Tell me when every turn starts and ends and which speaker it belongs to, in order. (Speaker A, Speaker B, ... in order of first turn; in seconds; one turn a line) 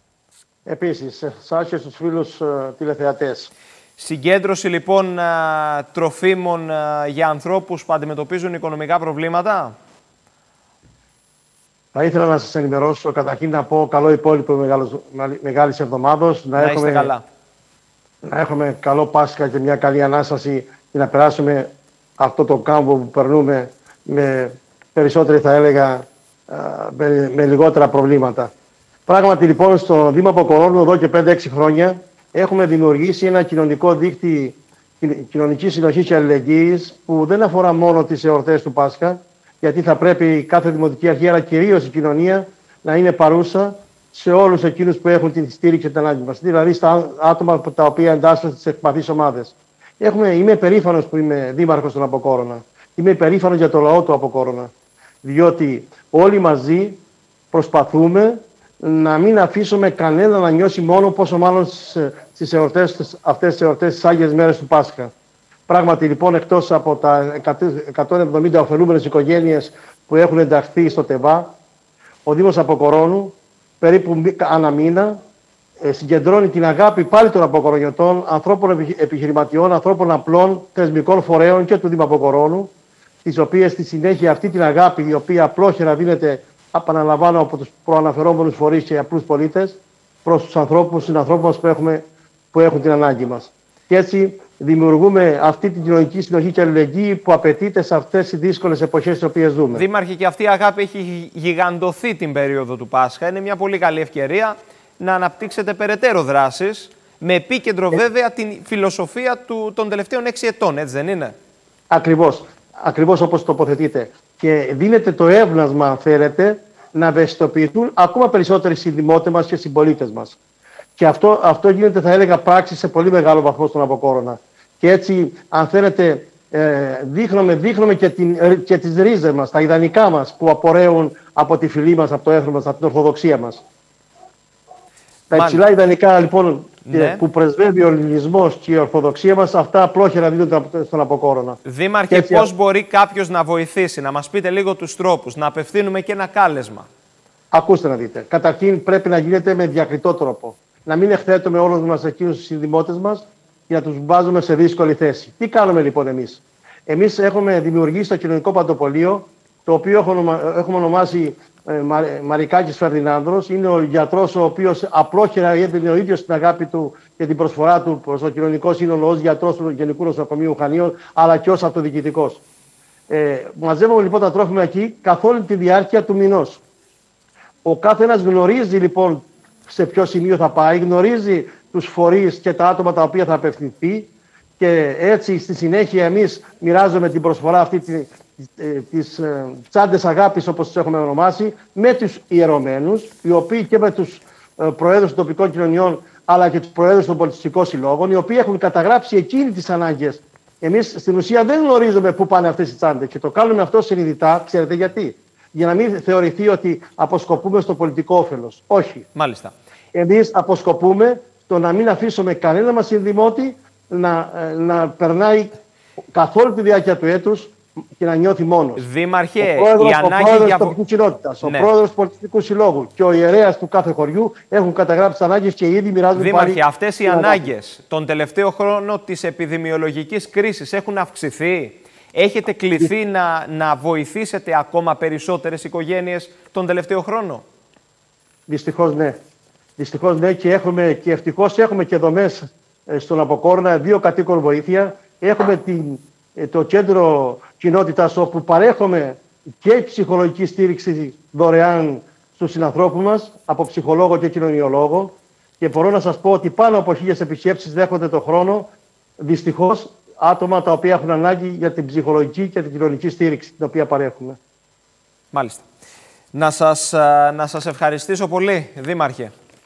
Speaker A: 0.7-3.5
Speaker B: 4.0-9.7
Speaker A: 11.9-17.1
Speaker B: 16.6-17.2
Speaker A: 18.2-28.5
Speaker A: 29.1-54.7
Speaker A: 55.2-57.0
Speaker A: 57.5-65.1
Speaker A: 65.7-71.5
Speaker A: 72.2-75.2
Speaker A: 75.8-82.7
Speaker A: 83.2-92.0
Speaker A: 92.5-99.8
Speaker B: 99.7-111.3
Speaker A: 111.9-120.4
Speaker A: 121.0-133.6
Speaker B: 135.3-135.6
Speaker A: 135.3-141.6
Speaker B: 136.8-137.2
Speaker B: 141.6-146.9
Speaker A: 142.1-142.5
Speaker A: 147.5-172.4
Speaker A: 173.1-176.6
Speaker A: 177.6-209.1
Speaker B: 209.1-209.5
Speaker A: 209.9-215.5
Speaker A: 216.1-218.8
Speaker B: 218.8-220.8
Speaker A: 219.4-227.5
Speaker B: 221.4-221.7
Speaker B: 226.1-237.4
Speaker A: 238.5-239.2
Speaker A: 239.8-264.4
Speaker B: 265.3-265.6
Speaker B: 266.3-269.3